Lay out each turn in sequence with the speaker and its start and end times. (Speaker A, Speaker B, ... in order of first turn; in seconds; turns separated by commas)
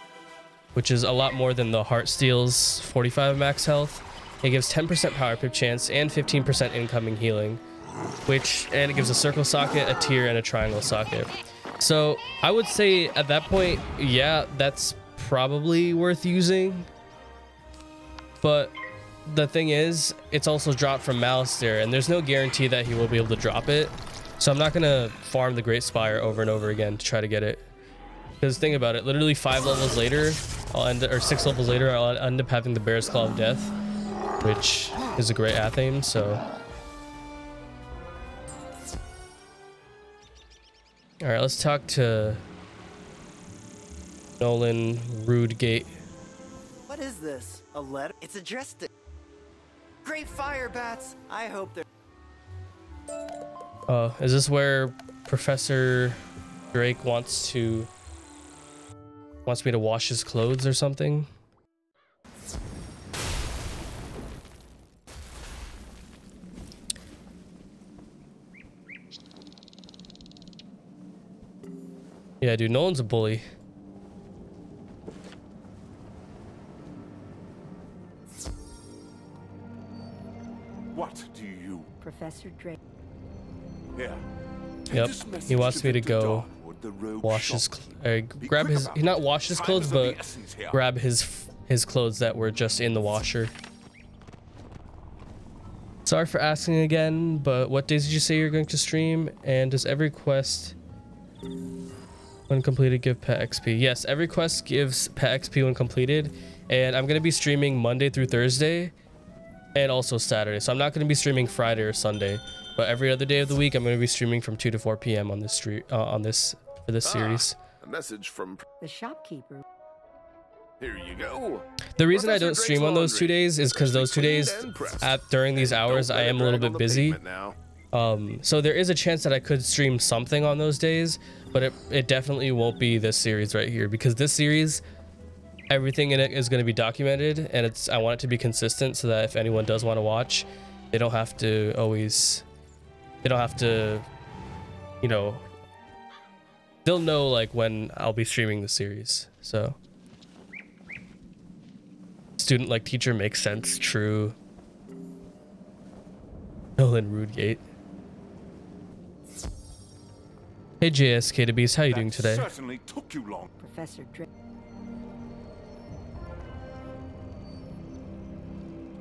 Speaker A: 0.8-7.6, Speaker A: 8.3-16.9, Speaker A: 18.4-18.7, Speaker A: 19.3-27.6, Speaker A: 28.4-33.7, Speaker A: 34.4-36.4, Speaker A: 41.2-42.4, Speaker A: 44.4-45.9, Speaker B: 46.9-48.9, Speaker B: 50.0-51.9, Speaker A: 53.9-56.2, Speaker A: 56.7-57.9, Speaker A: 59.5-61.3, Speaker A: 72.4-73.5, Speaker C: 80.9-81.9, Speaker D: 82.0-82.8, Speaker C: 84.0-84.2, Speaker C: 84.9-87.8, Speaker A: 84.9-86.5, Speaker A: 87.2-90.2, Speaker C: 88.4-90.8, Speaker A: 90.7-93.5, Speaker A: 96.1-100.8, Speaker A: 102.5-108.9, Speaker A: 109.8-117.6, Speaker C: 117.0-118.7, Speaker D: 118.8-119.6, Speaker C: 120.8-127.6, Speaker A: 122.0-127.2, Speaker A: 127.9-134.8, Speaker A: 135.7-142.4, Speaker A: 143.2-144.1, Speaker A: 145.0-145.4, Speaker A: 146.8-149.8, Speaker A: 152.4-154.4, Speaker A: 156.8-157.6, Speaker A: 160.8-162.5, Speaker C: 161.9-163.5, Speaker D: 163.6-164.3